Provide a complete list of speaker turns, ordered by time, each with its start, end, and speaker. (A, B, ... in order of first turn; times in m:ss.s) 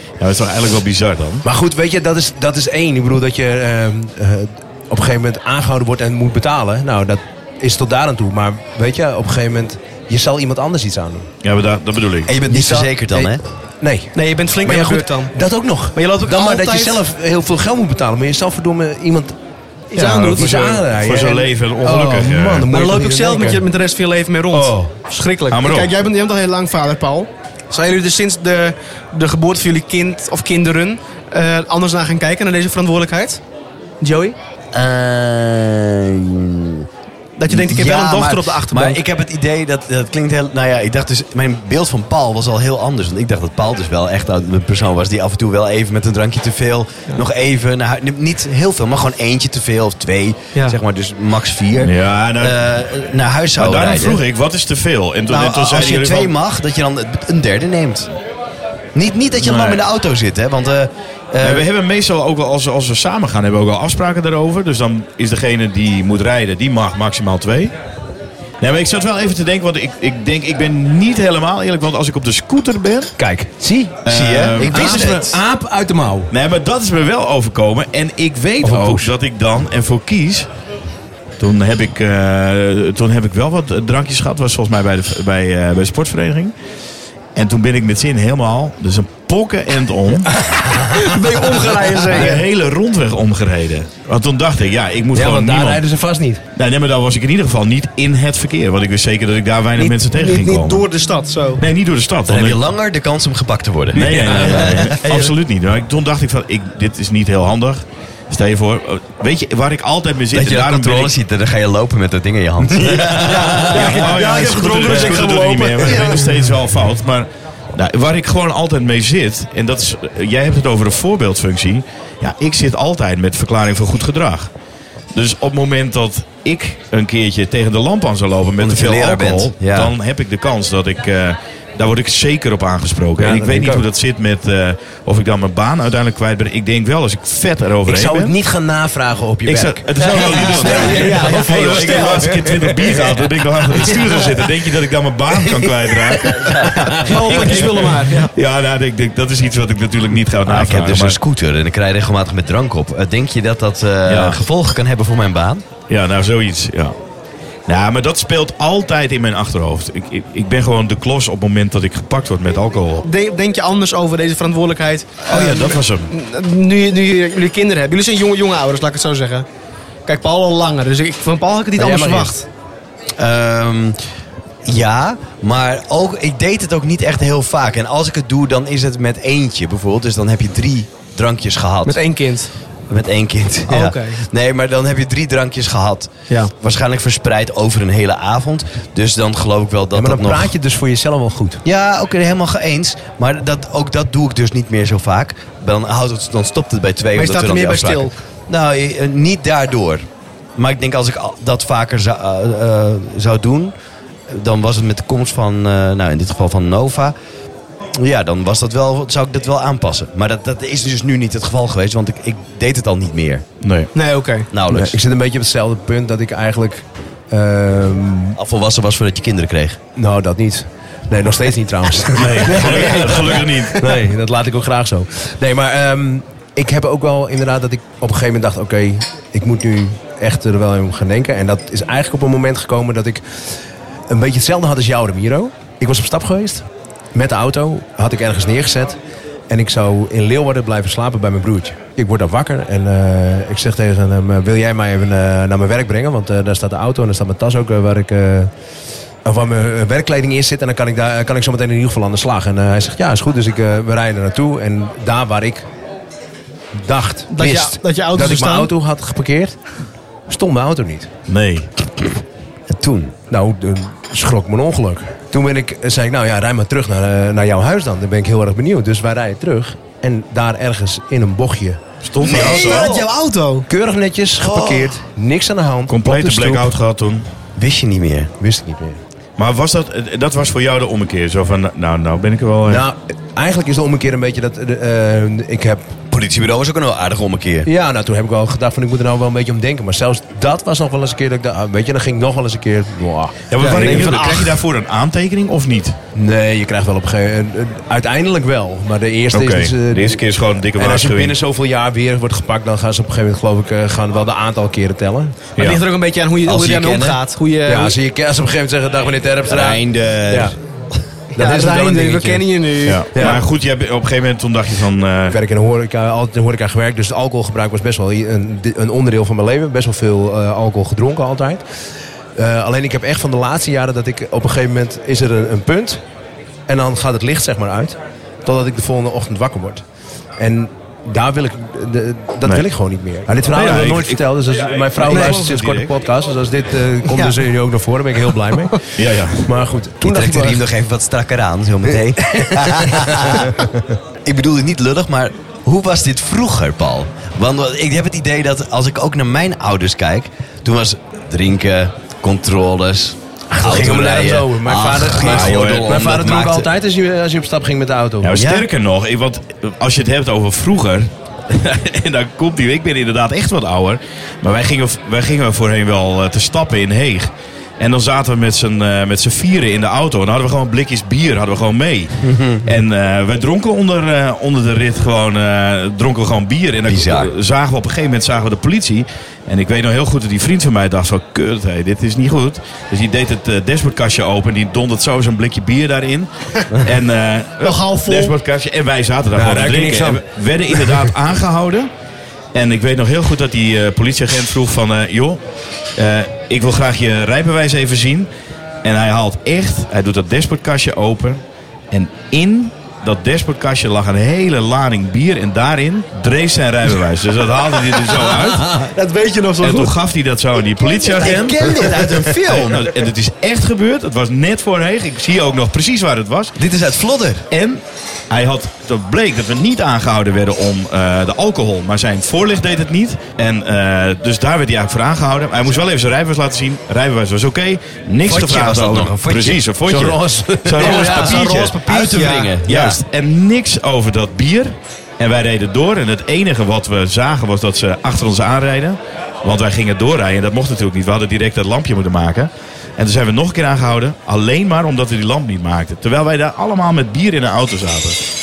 0:00.2-0:01.4 A
0:01.4-0:11.3 B
0:11.4-0:12.3 A
0:12.2-0:13.4 C
0:12.5-0:19.4 B
0:14.1-0:15.3 D
0:16.0-0:17.0 D
0:19.9-0:20.7 D
0:20.0-0:23.6 B
0:20.0-0:22.7 A
0:22.7-0:33.4 D
0:24.5-0:24.9 B
0:25.5-0:25.9 A
0:34.0-0:34.4 D
0:34.7-0:36.9 C
0:37.4-0:39.0 D
0:37.5-0:54.2 C
0:51.8-0:52.7 A
0:53.6-0:56.3 A
0:55.3-0:58.1 C
0:58.9-1:01.7 C
0:59.4-0:59.8 A
1:01.4-1:07.7 A
1:08.6-1:13.1 A
1:13.2-1:14.0 B
1:14.1-1:15.3 A
1:14.1-1:15.4 C
1:14.6-1:16.3 B
1:16.3-1:20.5 A
1:18.6-1:19.1 B
1:21.4-1:26.5 A
1:27.4-1:30.3 A
1:30.4-1:32.4 B
1:30.8-1:32.4 D
1:32.1-1:35.8 A
1:35.1-1:36.4 B
1:36.6-1:40.9 A
1:39.8-1:41.6 D
1:41.6-1:42.6 A
1:42.3-1:45.2 C
1:43.9-1:51.1 A
1:44.1-1:45.0 B
1:50.3-1:54.1 C
1:52.9-1:56.2 B
1:53.2-1:56.2 D
1:53.5-2:04.5 A
2:05.1-2:18.3 A
2:08.6-2:09.9 C
2:13.2-2:13.9 B
2:17.9-2:23.1 B
2:19.5-2:31.2 A
2:20.0-2:22.5 D
2:23.7-2:24.5 B
2:25.4-2:27.7 B
2:26.4-2:26.8 C
2:27.0-2:28.3 D
2:30.4-2:35.6 C
2:34.1-2:34.4 A
2:35.9-2:37.0 A
2:37.7-2:43.1 A
2:43.0-2:49.5 D
2:45.3-2:46.1 A
2:50.0-2:52.5 D
2:51.8-2:52.4 B
2:53.2-2:54.0 C
2:54.6-3:02.0 C
3:01.9-3:02.5 D
3:02.9-3:10.5 C
3:03.7-3:04.2 D
3:09.9-3:11.6 B
3:11.6-3:20.0 C
3:17.1-3:18.1 D
3:20.6-3:23.7 C
3:24.3-3:27.1 C
3:28.0-3:33.4 C
3:33.6-3:33.9 A
3:34.0-3:34.5 D
3:34.5-3:35.0 C
3:34.7-3:38.4 B
3:38.4-3:39.8 C
3:40.0-3:53.2 B
3:42.1-3:43.8 A
3:42.5-3:43.9 D
3:54.1-3:59.0 B
3:59.5-4:08.5 B
4:09.2-4:15.6 B
4:16.8-4:19.6 B
4:17.3-4:18.7 D
4:20.3-4:21.1 B
4:21.3-4:21.7 A
4:22.7-4:23.1 C
4:23.3-4:32.9 B
4:32.0-4:33.0 A
4:32.2-4:33.6 D
4:32.6-4:33.0 C
4:33.7-4:36.7 B
4:35.9-4:37.2 A
4:37.6-4:38.3 C
4:38.4-4:39.0 B
4:39.4-4:42.8 A
4:42.7-4:45.9 B
4:46.1-4:47.7 C
4:47.6-4:54.4 B
4:53.5-4:56.0 A
4:53.6-4:54.5 D
4:56.1-5:00.2 B
4:59.3-5:01.4 A
5:00.8-5:05.4 B
5:05.6-5:05.8 A
5:05.6-5:07.9 D
5:06.4-5:07.2 C
5:07.6-5:10.6 B
5:09.5-5:10.6 C
5:11.3-5:12.5 B
5:11.4-5:13.4 D
5:12.8-5:15.4 A
5:13.1-5:13.4 B
5:15.3-5:21.6 B
5:22.4-5:26.0 B
5:26.7-5:29.8 B
5:30.4-5:40.6 B
5:33.5-5:35.9 A
5:35.1-5:35.4 D
5:37.1-5:37.4 D
5:39.0-5:39.5 A
5:40.0-5:43.5 C
5:42.2-5:43.8 B
5:44.2-5:56.7 C
5:53.5-5:58.4 B
5:55.2-5:55.9 A
5:58.2-6:31.9 A
5:58.4-5:58.7 C
6:12.2-6:12.7 C
6:16.9-6:17.3 C
6:27.6-6:28.4 D
6:29.3-6:31.1 B
6:32.5-6:35.4 A
6:36.0-6:38.3 A
6:38.8-6:48.9 A
6:48.3-6:49.9 D
6:49.6-6:56.5 A
6:51.1-6:53.0 C
6:56.6-6:57.4 C
6:57.5-7:11.8 A
7:08.2-7:09.6 C
7:09.9-7:11.3 B
7:10.8-7:12.6 D
7:10.9-7:13.0 C
7:12.6-7:28.2 A